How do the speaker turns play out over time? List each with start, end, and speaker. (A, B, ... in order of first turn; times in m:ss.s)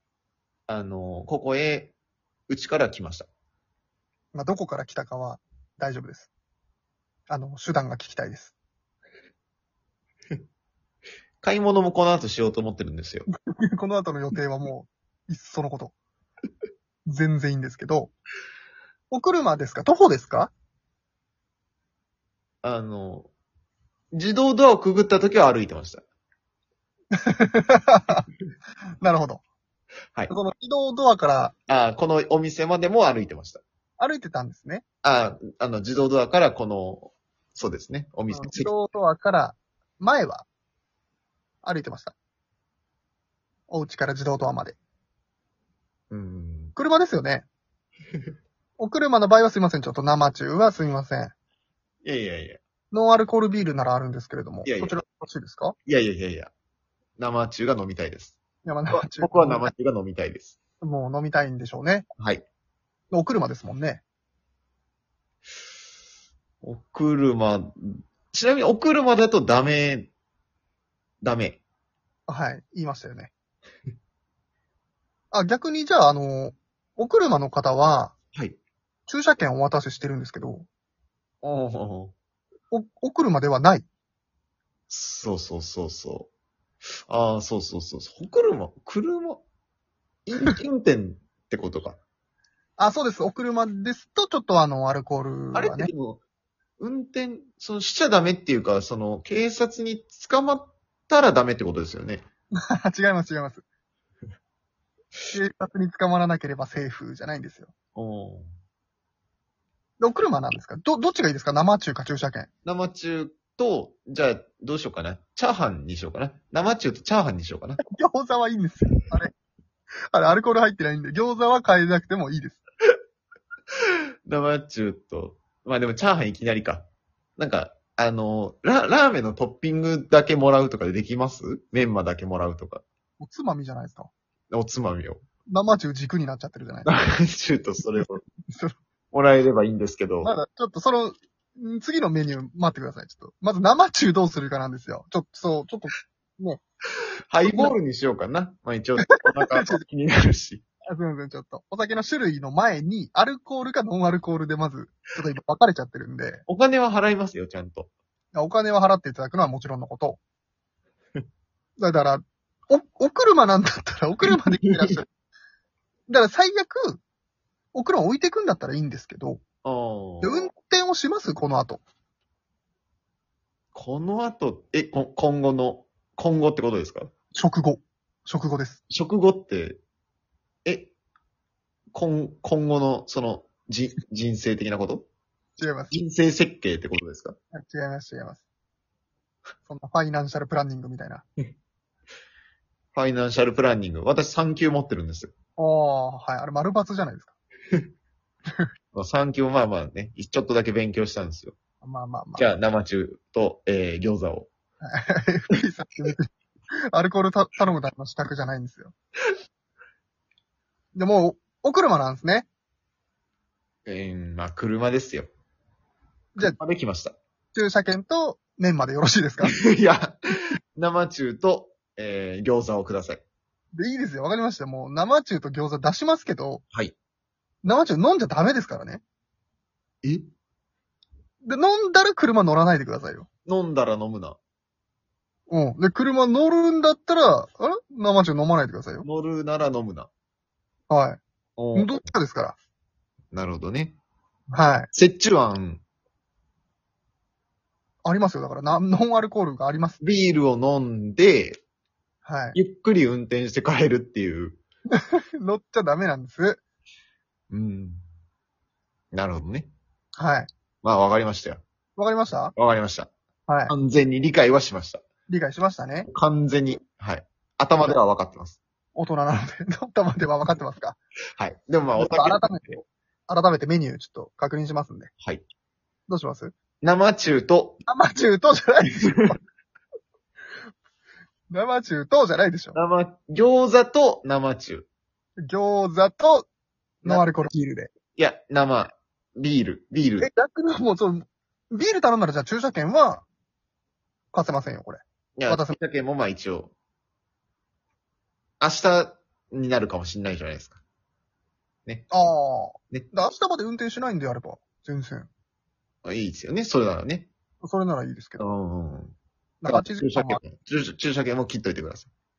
0:00.7-0:01.9 A
0:02.5-0:03.3 A
0:04.3-0:06.3 B
0:07.3-0:08.5 B
0:11.4-0:13.3 A
0:13.7-0:15.9 B
0:17.1-0:18.1 B
0:19.1-0:20.5 B
0:22.6-0:23.3 A
0:24.1-0:26.0 A
0:27.2-0:28.2 B
0:29.0-0:29.4 B
0:30.3-0:31.5 B
0:31.7-0:33.6 A
0:34.0-0:34.8 B
0:35.0-0:38.7 A
0:38.3-0:40.5 B
0:41.6-0:42.1 B
0:43.7-0:44.8 B
0:46.1-0:46.7 A
0:46.8-0:47.5 B
0:48.8-0:51.3 B
0:52.0-0:52.6 A
0:52.9-0:55.8 B
0:54.6-0:55.0 A
0:55.8-0:56.5 A
0:57.2-0:58.4 A
0:58.6-0:59.7 B
0:58.9-1:00.6 A
1:00.8-1:02.1 B
1:02.2-1:02.4 A
1:03.1-1:04.0 B
1:06.6-1:10.1 A
1:11.2-1:11.6 A
1:12.3-1:13.3 B
1:15.3-1:18.1 B
1:19.1-1:20.7 B
1:21.4-1:22.1 A
1:22.7-1:23.8 B
1:24.9-1:26.3 A
1:27.1-1:29.4 A
1:30.2-1:32.0 A
1:32.8-1:35.9 B
1:35.5-1:36.2 A
1:36.8-1:42.2 A
1:42.7-1:43.6 B
1:45.3-1:47.7 B
1:47.9-1:48.5 A
1:50.0-1:52.5 B
1:52.6-1:57.8 A
1:57.8-1:59.3 B
2:00.1-2:02.6 B
2:04.3-2:12.8 A
2:13.2-2:14.1 B
2:14.5-2:15.2 A
2:15.5-2:16.9 B
2:16.8-2:18.2 A
2:18.5-2:18.7 B
2:19.1-2:20.3 A
2:20.2-2:26.6 B
2:27.3-2:30.6 A
2:27.4-2:27.7 B
2:29.0-2:29.8 B
2:30.9-2:36.4 B
2:36.5-2:37.9 A
2:38.3-2:40.2 B
2:41.8-2:45.1 B
2:46.1-2:47.0 B
2:47.7-2:49.4 B
2:49.6-2:50.5 A
2:50.2-2:51.8 B
2:53.7-2:57.1 A
2:57.3-2:58.8 B
2:58.9-2:59.8 A
3:00.6-3:00.9 A
3:01.9-3:05.1 A
3:05.6-3:05.9 B
3:05.9-3:07.4 A
3:07.5-3:08.4 B
3:09.6-3:11.2 B
3:12.9-3:15.3 A
3:15.6-3:17.3 B
3:18.9-3:21.5 A
3:21.8-3:22.5 B
3:22.4-3:24.5 A
3:24.8-3:26.3 B
3:26.9-3:28.9 B
3:30.9-3:32.5 B
3:33.8-3:35.3 A
3:36.4-3:37.2 A
3:37.5-3:39.5 B
3:39.4-3:40.2 A
3:40.8-3:43.2 A
3:43.7-3:46.6 B
3:47.6-3:49.0 B
3:50.0-3:50.3 A
3:51.4-3:53.3 B
3:53.4-3:54.4 A
3:55.5-3:59.1 B
3:59.0-4:00.1 A
4:00.9-4:01.2 B
4:01.6-4:02.0 A
4:01.7-4:02.6 B
4:03.3-4:04.0 A
4:04.5-4:04.9 B
4:04.9-4:05.8 A
4:08.0-4:10.0 B
4:10.0-4:11.6 A
4:12.2-4:12.6 B
4:12.5-4:14.6 A
4:15.0-4:16.6 B
4:17.5-4:18.0 A
4:19.1-4:19.7 A
4:20.2-4:20.5 B
4:20.8-4:21.6 A
4:22.0-4:22.5 B
4:22.5-4:23.1 A
4:23.5-4:23.7 B
4:23.7-4:25.0 A
4:25.3-4:26.1 B
4:26.1-4:28.6 A
4:28.9-4:31.0 B
4:31.4-4:32.8 A
4:31.9-4:35.1 B
4:36.1-4:36.5 B
4:36.8-4:37.8 A
4:37.9-4:39.4 B
4:41.5-4:42.8 B
4:42.7-4:44.9 A
4:45.4-4:46.5 B
4:47.0-4:47.9 B
4:47.0-4:47.3 A
4:48.1-4:50.3 A
4:50.2-4:53.2 B
4:54.3-4:55.8 B
4:55.4-4:56.7 A
4:58.6-5:00.8 A
5:02.1-5:05.3 B
5:06.0-5:07.3 A
5:07.6-5:08.4 B
5:08.4-5:09.1 A
5:09.6-5:10.4 B
5:09.7-5:12.1 A